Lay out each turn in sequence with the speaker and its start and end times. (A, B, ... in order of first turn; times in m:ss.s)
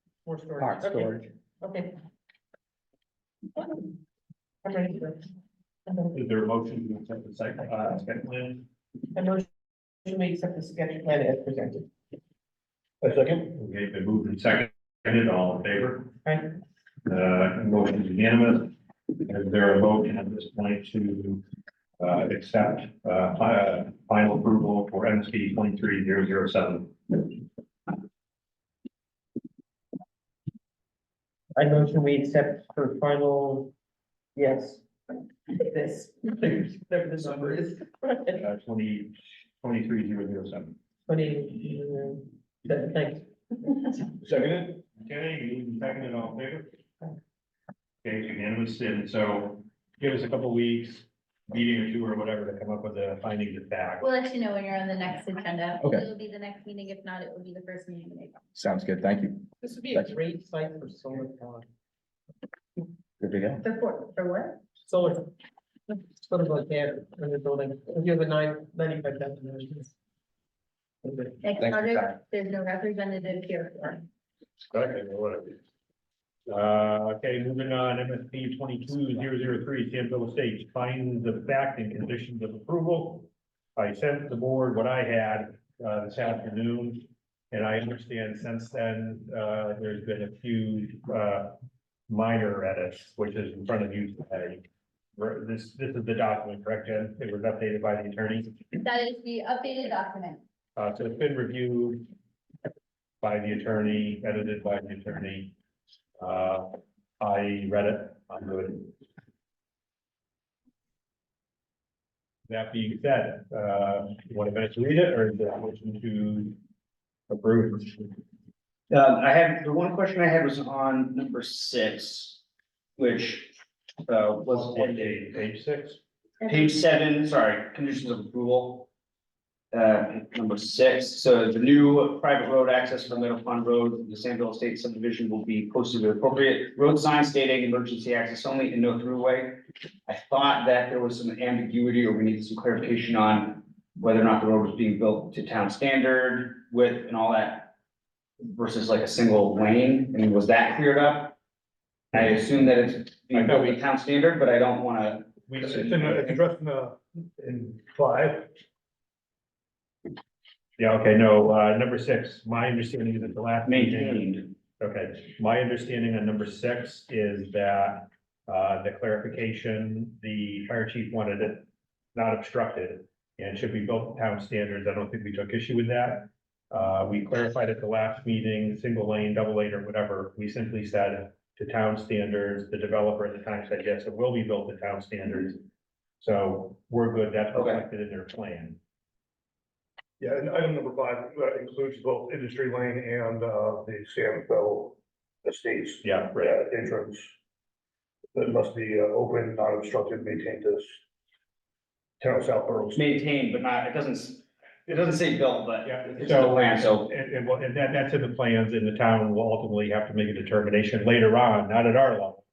0:00.2-0:02.0 A
0:00.6-0:01.3 B
0:04.6-0:05.2 A
0:06.1-0:08.6 C
0:09.2-0:09.5 A
0:10.0-0:11.8 A
0:13.0-0:16.1 C
0:17.1-0:18.7 C
0:19.3-0:21.4 C
0:22.0-0:27.3 C
0:31.6-0:33.7 A
0:34.4-0:34.9 A
0:35.5-0:38.4 A
0:38.4-0:40.8 C
0:41.1-0:43.9 A
0:44.2-0:46.7 C
0:48.0-0:54.1 C
0:54.0-0:58.4 D
0:55.8-0:56.1 B
0:58.6-1:00.2 B
0:59.6-1:01.7 A
1:03.2-1:03.6 B
1:03.6-1:04.6 D
1:04.9-1:05.3 A
1:06.2-1:09.9 A
1:11.0-1:11.4 A
1:11.4-1:14.0 D
1:11.6-1:12.2 B
1:14.7-1:15.6 C
1:16.5-1:31.6 C
1:32.1-1:34.6 C
1:35.2-1:38.6 C
1:38.8-1:40.4 D
1:40.8-1:42.1 C
1:43.2-1:45.5 C
1:46.2-1:48.9 C
1:52.5-1:56.6 C
1:57.3-1:58.1 C
1:58.9-2:02.4 E
2:03.0-2:03.6 E
2:04.1-2:05.3 E
2:04.5-2:06.0 C
2:06.4-2:08.9 E
2:09.7-2:27.7 E
2:28.4-2:31.4 E
2:32.1-2:35.3 E
2:33.3-2:33.8 C
2:35.5-2:36.4 C
2:35.6-2:38.5 F
2:40.8-3:05.6 C
2:43.7-2:44.5 E
3:06.2-3:08.8 C
3:07.5-3:07.8 E
3:10.2-3:17.3 F
3:16.0-3:16.6 C
3:18.4-3:21.0 F
3:22.2-3:23.1 F
3:23.0-3:27.1 E
3:25.8-3:32.4 C